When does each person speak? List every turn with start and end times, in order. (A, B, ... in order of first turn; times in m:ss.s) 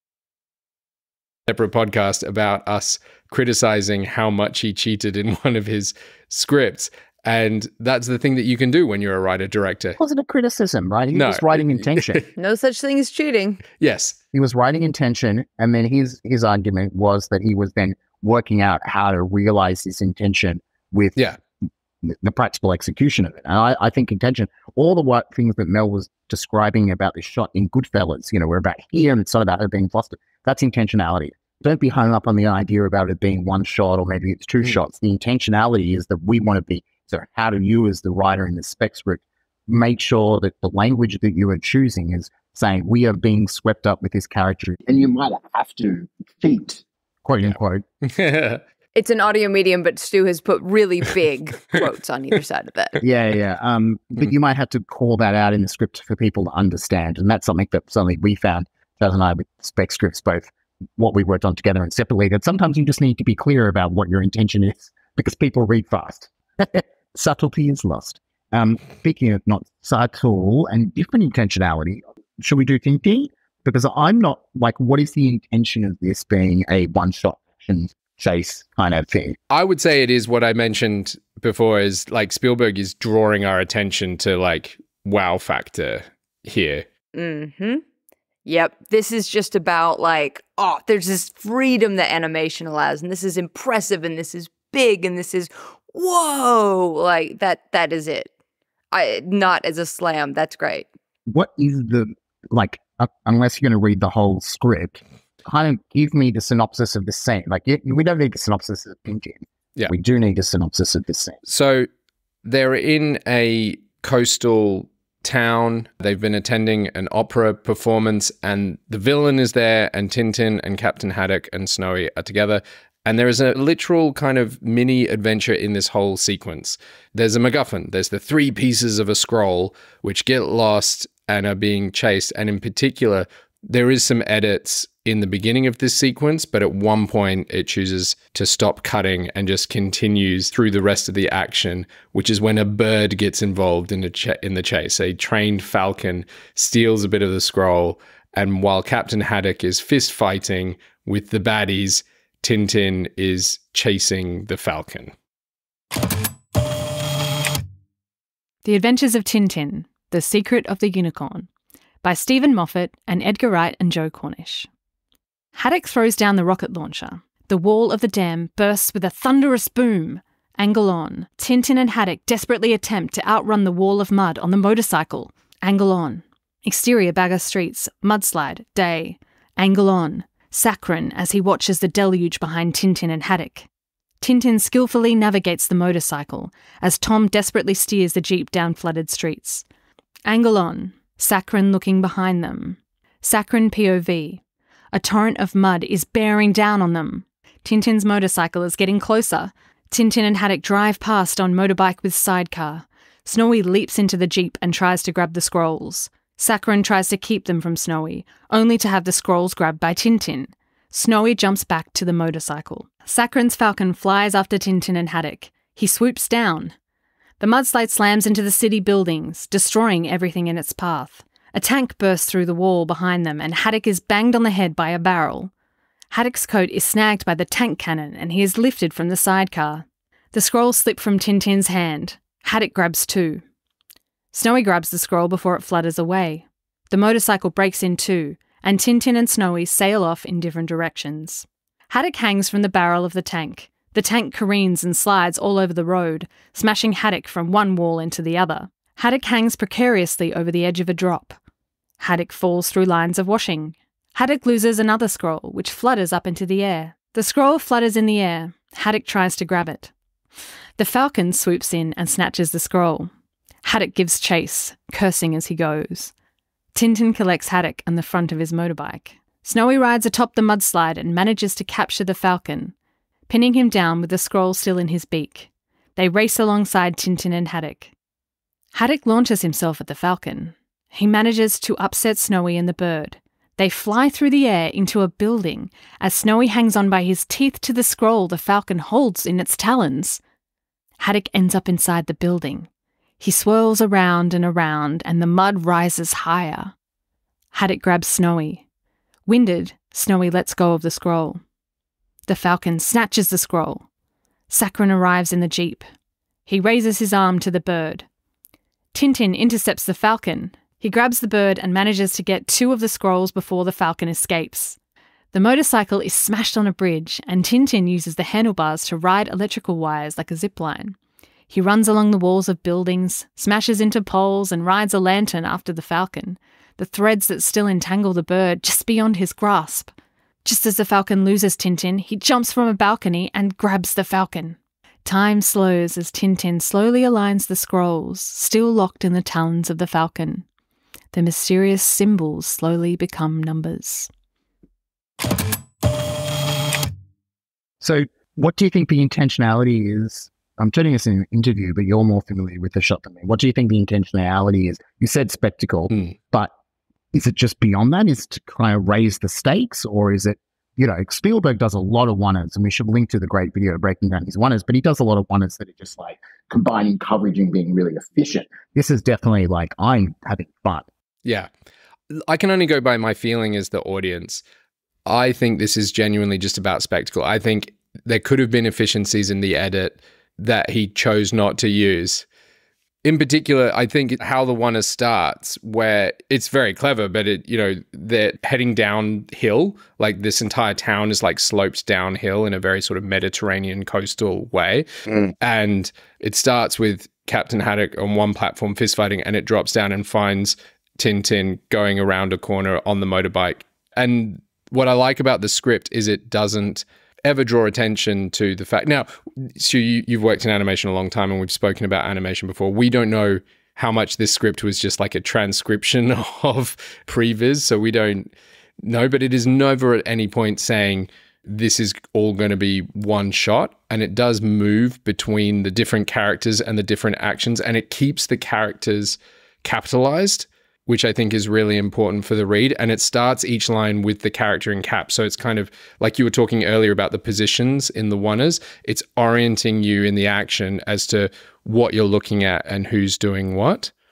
0:01.5-0:10.0 A
0:10.0-0:12.2 B
0:11.1-0:12.3 A
0:12.4-0:13.6 C
0:13.8-0:14.2 A
0:14.3-0:21.2 B
0:22.0-0:47.8 B
0:48.0-0:48.6 A
0:49.0-0:53.0 C
0:53.0-1:19.4 B
1:19.5-1:26.8 A
1:27.1-1:27.8 C
1:28.5-1:38.3 C
1:38.9-1:40.9 C
1:41.3-1:51.4 B
1:51.5-1:51.9 A
1:52.4-2:35.1 A
2:38.6-2:41.5 D
2:42.0-2:44.7 D
2:45.6-3:03.7 D
3:04.2-3:09.6 D
3:10.3-3:14.4 D
3:14.9-3:36.7 D
3:37.4-3:45.5 D
3:46.1-3:53.4 D
3:54.3-4:11.4 D
4:12.0-4:19.9 D
4:20.8-4:23.1 D
4:23.6-4:26.1 D
4:26.7-4:32.7 D
4:33.3-4:37.9 D
4:38.7-4:50.2 D
4:51.0-4:52.7 D
4:53.2-4:56.7 D
4:57.5-4:58.6 D
4:59.3-5:01.4 D
5:02.3-5:03.9 D
5:04.5-5:05.8 D
5:06.5-5:08.1 D
5:08.9-5:14.8 D
5:15.3-5:21.0 D
5:21.5-5:29.9 D
5:30.4-5:40.5 D
5:41.1-5:44.1 D
5:47.8-5:56.5 B
5:57.1-6:10.9 B
6:12.1-6:14.4 A
6:15.1-6:22.2 A
6:23.0-6:34.9 A
6:35.4-6:58.3 A
6:58.8-7:23.9 A